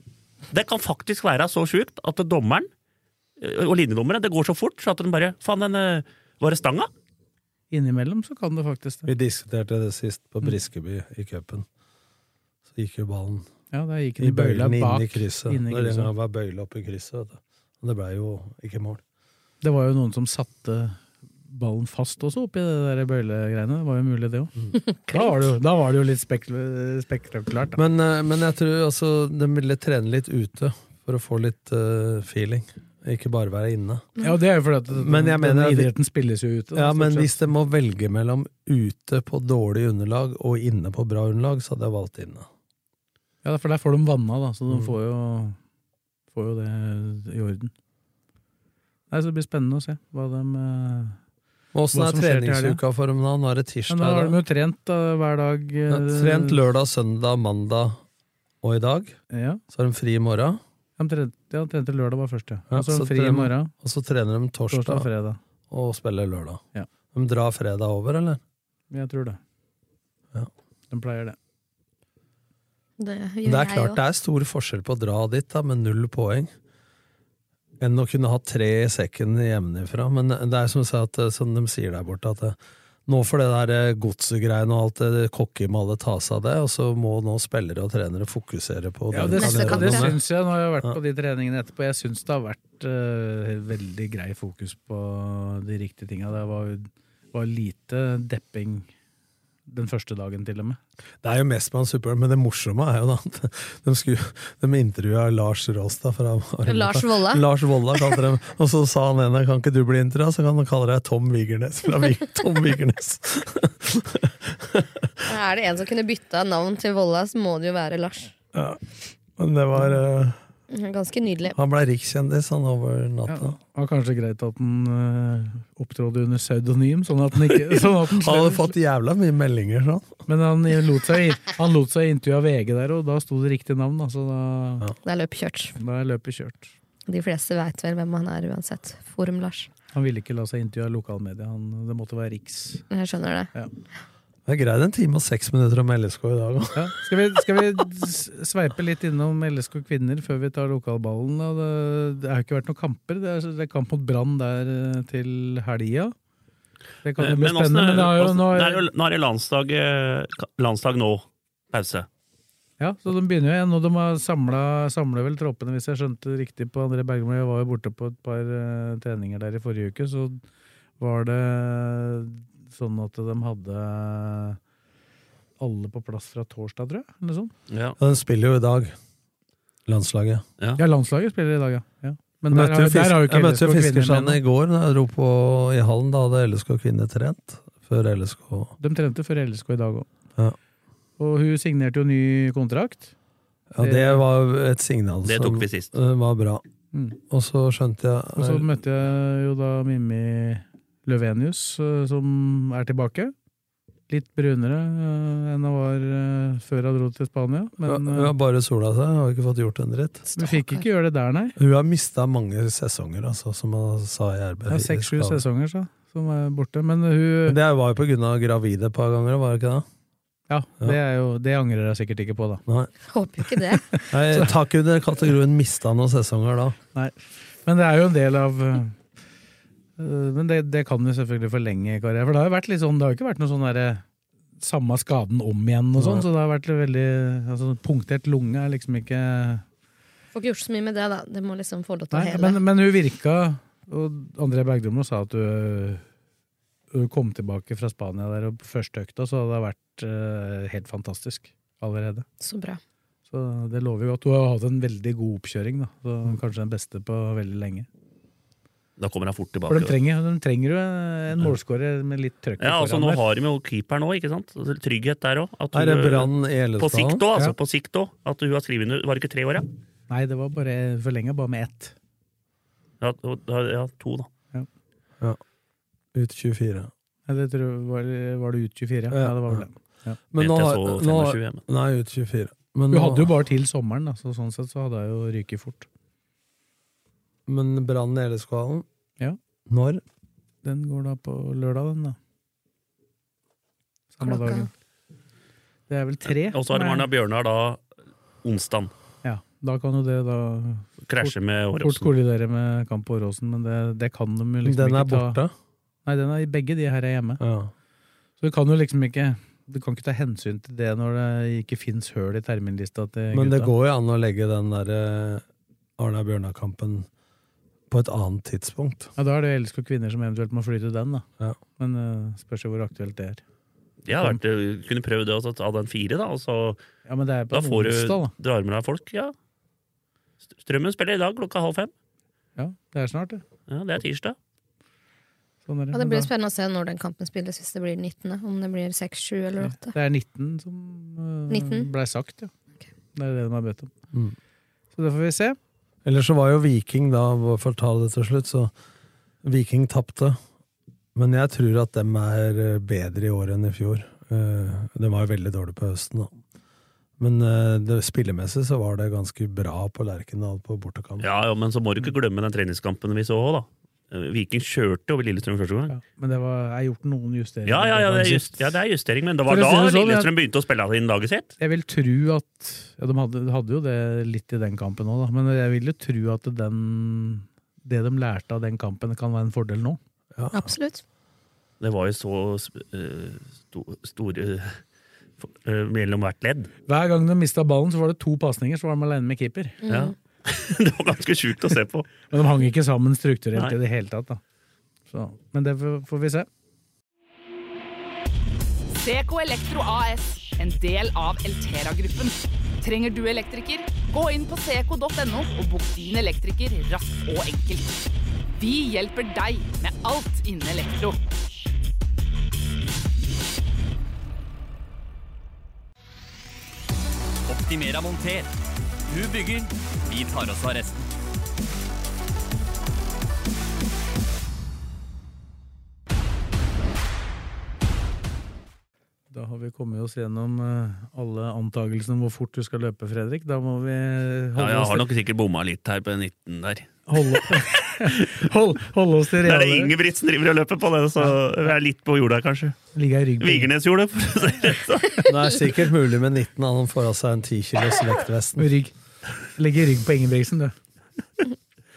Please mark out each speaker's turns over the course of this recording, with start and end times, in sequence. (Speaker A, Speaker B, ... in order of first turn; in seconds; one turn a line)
Speaker A: 0.5-2.7
Speaker A: 3.4-6.9
Speaker B: 7.7-9.1
Speaker C: 9.1-11.7
Speaker C: 12.7-13.5
Speaker B: 13.7-16.1
Speaker C: 14.2-19.0
Speaker B: 19.6-24.5
Speaker D: 24.7-25.4
Speaker B: 25.1-27.8
Speaker C: 27.8-34.1
Speaker B: 34.2-37.4
Speaker C: 35.0-35.9
Speaker C: 36.7-42.5
Speaker B: 43.4-45.6
Speaker B: 46.3-47.7
Speaker B: 49.1-51.2
Speaker C: 51.7-54.4
Speaker B: 51.9-52.8
Speaker B: 53.9-56.6
Speaker C: 55.9-58.0
Speaker C: 58.6-59.2
Speaker B: 59.3-59.6
Speaker C: 59.7-60.6
Speaker B: 61.0-63.7
Speaker C: 62.7-65.1
Speaker B: 64.7-65.4
Speaker C: 65.7-66.6
Speaker C: 67.1-68.4
Speaker B: 68.9-69.4
Speaker B: 70.9-71.4
Speaker D: 73.0-74.0
Speaker C: 73.4-76.5
Speaker C: 77.8-90.2
Speaker B: 89.1-98.9
Speaker D: 89.3-90.1
Speaker B: 99.7-100.8
Speaker C: 101.2-115.2
Speaker D: 106.7-107.5
Speaker D: 115.3-118.3
Speaker C: 118.5-120.4
Speaker D: 120.7-121.6
Speaker C: 121.5-123.5
Speaker B: 123.3-128.7
Speaker C: 127.5-130.2
Speaker B: 130.3-134.9
Speaker D: 135.0-135.7
Speaker B: 135.8-136.7
Speaker D: 137.1-139.7
Speaker B: 139.9-142.8
Speaker D: 142.9-143.5
Speaker C: 144.4-146.9
Speaker B: 146.7-156.1
Speaker B: 157.0-158.8
Speaker A: 157.2-162.1
Speaker B: 162.8-170.4
Speaker B: 171.0-174.6
Speaker B: 175.6-177.5
Speaker A: 177.7-177.9
Speaker C: 178.0-178.9
Speaker C: 179.9-180.4
Speaker B: 180.8-184.4
Speaker C: 182.5-188.7
Speaker B: 188.8-190.1
Speaker B: 191.2-193.1
Speaker C: 193.7-196.6
Speaker B: 193.8-194.2
Speaker A: 195.2-195.9
Speaker B: 196.9-197.2
Speaker C: 197.3-198.7
Speaker B: 198.4-203.3
Speaker B: 204.1-208.3
Speaker C: 207.8-210.3
Speaker D: 210.3-210.8
Speaker B: 210.4-211.6
Speaker C: 211.6-215.4
Speaker B: 214.7-217.6
Speaker C: 217.5-219.8
Speaker B: 220.5-222.6
Speaker C: 222.7-222.9
Speaker D: 223.1-224.0
Speaker B: 223.9-224.5
Speaker C: 224.1-226.8
Speaker B: 226.9-229.0
Speaker B: 230.0-234.0
Speaker B: 234.6-239.6
Speaker C: 236.0-236.2
Speaker D: 240.3-242.6
Speaker B: 242.1-246.0
Speaker B: 246.9-252.3
Speaker D: 252.4-252.8
Speaker B: 253.3-257.9
Speaker A: 259.0-259.9
Speaker B: 259.7-263.2
Speaker A: 262.6-269.7
Speaker C: 265.7-267.2
Speaker B: 270.1-271.9
Speaker A: 273.0-274.3
Speaker C: 276.1-276.9
Speaker B: 277.3-280.2
Speaker C: 279.1-279.7
Speaker C: 280.3-283.3
Speaker A: 280.4-281.6
Speaker B: 282.9-285.9
Speaker C: 287.5-288.9
Speaker C: 289.7-290.0
Speaker B: 290.6-292.2
Speaker B: 294.1-294.7
Speaker D: 294.2-294.7
Speaker B: 295.9-297.1
Speaker A: 296.4-297.8
Speaker A: 298.4-298.9
Speaker B: 299.2-305.4
Speaker A: 301.1-302.1
Speaker C: 304.6-305.5
Speaker B: 306.1-307.4
Speaker C: 307.4-307.7
Speaker B: 308.4-313.7
Speaker C: 313.3-315.4
Speaker C: 316.0-317.1
Speaker C: 317.9-319.1
Speaker B: 319.2-321.3
Speaker B: 321.8-323.4
Speaker A: 324.1-326.8
Speaker B: 324.1-324.4
Speaker B: 327.1-328.3
Speaker A: 327.5-329.3
Speaker A: 330.6-331.9
Speaker B: 332.6-333.4
Speaker A: 333.7-334.4
Speaker B: 335.7-336.3
Speaker D: 335.9-339.9
Speaker B: 339.6-342.5
Speaker D: 341.5-341.9
Speaker B: 343.1-343.9
Speaker B: 344.9-345.6
Speaker C: 346.1-348.7
Speaker C: 349.4-350.4
Speaker C: 351.1-356.3
Speaker C: 357.2-361.3
Speaker A: 361.2-365.9
Speaker B: 365.9-368.6
Speaker A: 367.7-371.5
Speaker B: 369.5-370.3
Speaker B: 371.6-380.0
Speaker C: 380.4-380.7
Speaker D: 380.5-381.0
Speaker A: 381.8-384.8
Speaker A: 385.4-386.7
Speaker B: 386.9-389.8
Speaker D: 389.8-390.1
Speaker A: 389.9-392.1
Speaker B: 392.3-394.4
Speaker B: 395.1-396.5
Speaker E: 398.9-408.0
Speaker E: 408.6-411.2
Speaker F: 417.5-418.5
Speaker F: 419.1-421.1
Speaker B: 429.3-435.1
Speaker A: 434.6-438.3
Speaker B: 437.1-439.9
Speaker A: 439.4-442.8
Speaker B: 442.9-443.7
Speaker A: 443.4-445.2
Speaker C: 445.2-448.7
Speaker B: 448.6-448.9
Speaker B: 449.6-450.7